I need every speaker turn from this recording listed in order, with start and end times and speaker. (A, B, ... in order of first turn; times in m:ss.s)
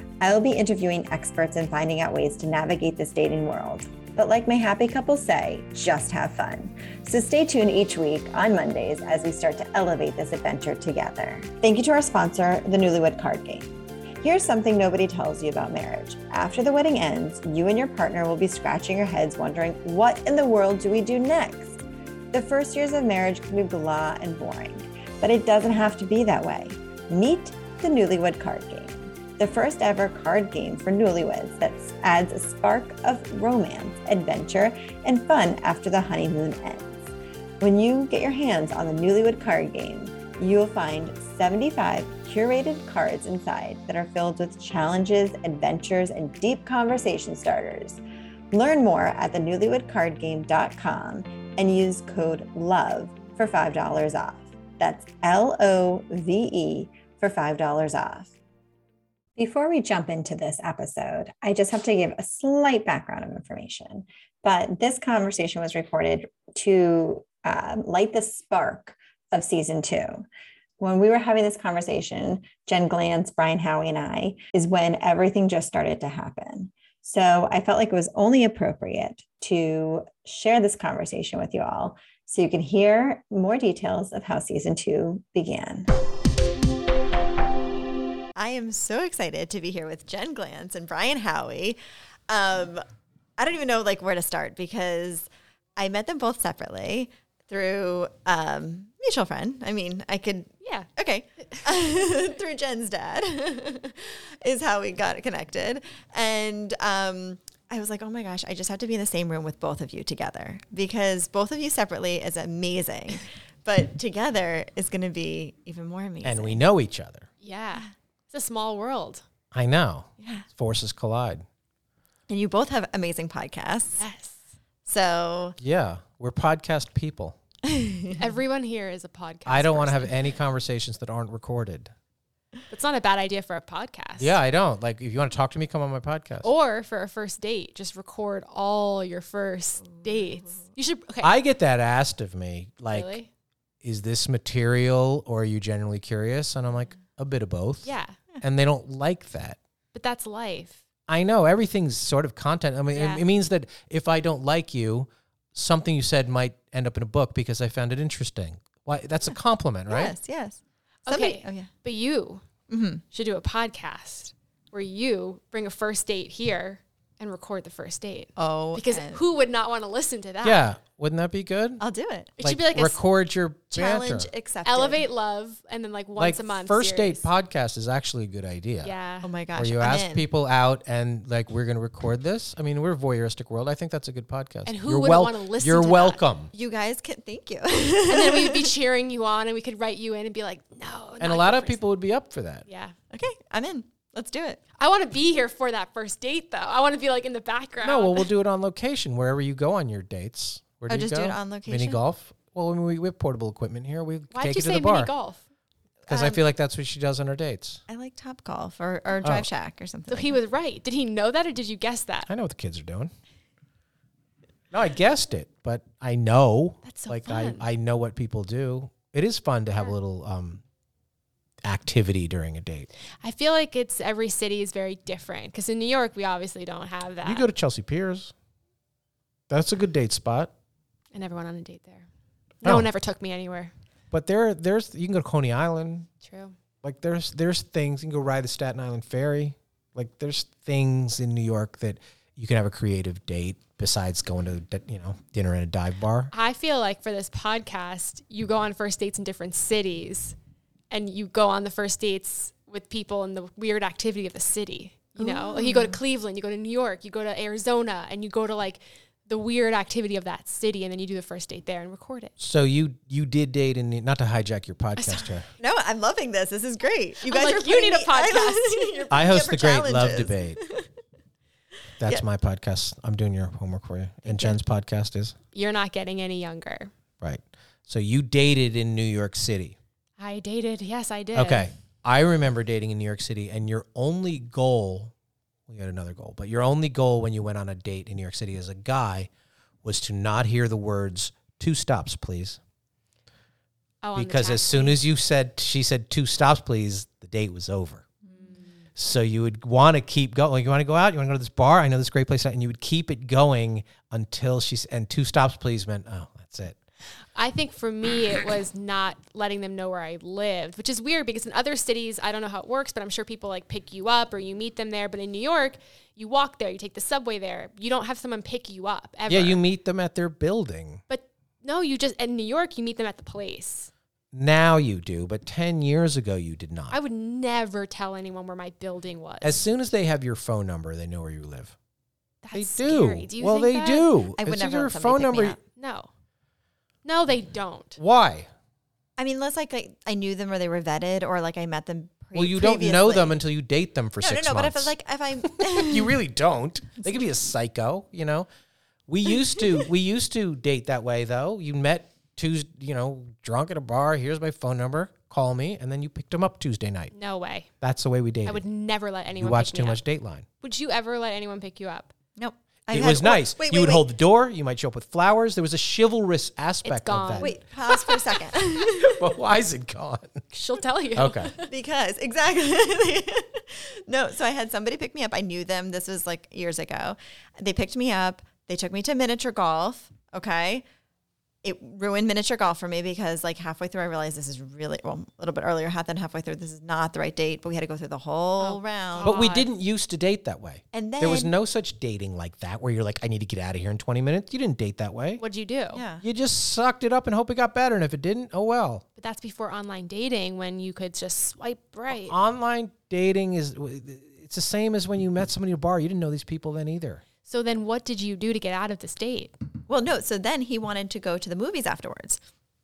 0:00.2-0:13.7 A
0:14.2-0:21.8 A
0:22.3-0:37.0 A
0:37.6-0:48.0 A
0:48.5-0:58.3 A
0:59.4-1:10.3 A
1:10.8-1:25.9 A
1:28.4-1:32.8 B
1:33.4-1:56.6 B
1:40.6-1:40.9 C
1:56.2-1:57.3 D
1:57.4-1:59.2 C
1:59.5-2:01.4 D
2:00.2-2:00.4 B
2:02.3-2:04.1 B
2:04.0-2:04.3 C
2:04.8-2:05.6 B
2:05.6-2:07.4 D
2:07.6-2:08.3 B
2:08.2-2:10.2 C
2:09.4-2:11.9 D
2:12.7-2:14.3 C
2:14.2-2:16.5 D
2:16.4-2:21.3 C
2:21.2-2:23.2 D
2:22.9-2:23.3 C
2:23.8-2:29.6 D
2:27.8-2:28.2 C
2:29.9-2:30.8 C
2:31.1-2:40.1 D
2:32.9-2:33.2 C
2:39.9-2:41.7 B
2:41.0-2:42.4 C
2:42.7-2:43.0 B
2:43.1-2:50.6 C
2:48.4-2:49.2 B
2:50.4-2:51.8 D
2:51.8-2:52.3 B
2:52.4-2:53.0 C
2:52.4-2:54.3 D
2:53.7-2:55.0 B
2:54.6-2:57.3 C
2:56.2-2:58.9 D
2:58.8-2:59.3 C
2:59.2-3:00.3 B
2:59.5-3:06.5 D
3:04.6-3:06.2 C
3:06.5-3:08.7 B
3:08.1-3:11.8 C
3:11.2-3:12.6 D
3:12.7-3:12.9 C
3:13.1-3:14.6 B
3:14.8-3:18.3 C
3:17.8-3:25.1 D
3:20.9-3:22.0 B
3:24.3-3:25.4 C
3:26.0-3:26.4 B
3:26.1-3:27.8 D
3:27.9-3:30.4 B
3:29.2-3:29.5 D
3:30.1-3:32.3 C
3:32.3-3:33.1 D
3:34.7-3:40.6 D
3:36.8-3:37.6 C
3:41.6-3:42.9 D
3:43.2-3:47.4 C
3:47.2-3:48.3 D
3:49.5-3:50.5 D
3:51.1-3:52.0 C
3:52.6-3:53.7 C
3:52.6-3:52.9 D
3:54.1-3:56.1 D
3:56.2-3:56.5 C
3:56.8-4:06.3 D
4:06.3-4:10.3 C
4:10.9-4:22.3 C
4:15.2-4:16.0 B
4:22.4-4:25.5 D
4:25.0-4:25.4 C
4:25.6-4:30.9 B
4:27.2-4:29.1 C
4:29.1-4:30.6 D
4:32.0-4:35.3 D
4:34.2-4:34.6 C
4:35.5-4:36.9 C
4:37.2-4:39.8 D
4:40.2-4:41.7 C
4:41.3-4:45.1 D
4:45.7-4:49.3 D
4:49.8-4:52.6 D
4:54.0-4:55.0 C
4:54.2-4:58.0 D
4:58.3-4:58.6 C
4:59.0-5:06.8 D
5:07.3-5:19.6 C
5:19.3-5:21.0 D
5:21.1-5:23.9 C
5:24.3-5:27.0 D
5:26.9-5:29.6 C
5:29.4-5:31.7 D
5:32.4-5:34.1 C
5:32.5-5:35.6 D
5:34.4-5:35.6 B
5:35.8-5:36.1 C
5:37.0-5:38.0 C
5:38.0-5:38.5 D
5:39.2-5:43.3 B
5:42.3-5:44.9 D
5:44.2-5:46.2 B
5:45.4-5:48.5 D
5:49.1-5:57.1 D
5:57.1-5:57.7 C
5:57.8-5:58.6 D
5:58.4-6:00.0 C
5:59.4-6:00.4 D
6:00.6-6:02.1 C
6:02.4-6:04.0 B
6:02.9-6:07.6 D
6:06.8-6:08.2 C
6:07.4-6:09.3 B
6:09.0-6:10.4 D
6:10.5-6:11.7 C
6:11.1-6:11.5 D
6:11.7-6:20.8 B
6:21.6-6:29.3 B
6:28.6-6:29.7 C
6:29.2-6:35.4 D
6:30.9-6:31.5 B
6:35.4-6:36.0 C
6:35.9-6:36.2 B
6:36.2-6:39.0 D
6:39.2-6:42.4 C
6:42.1-6:47.2 D
6:47.4-6:49.5 C
6:49.9-6:52.4 B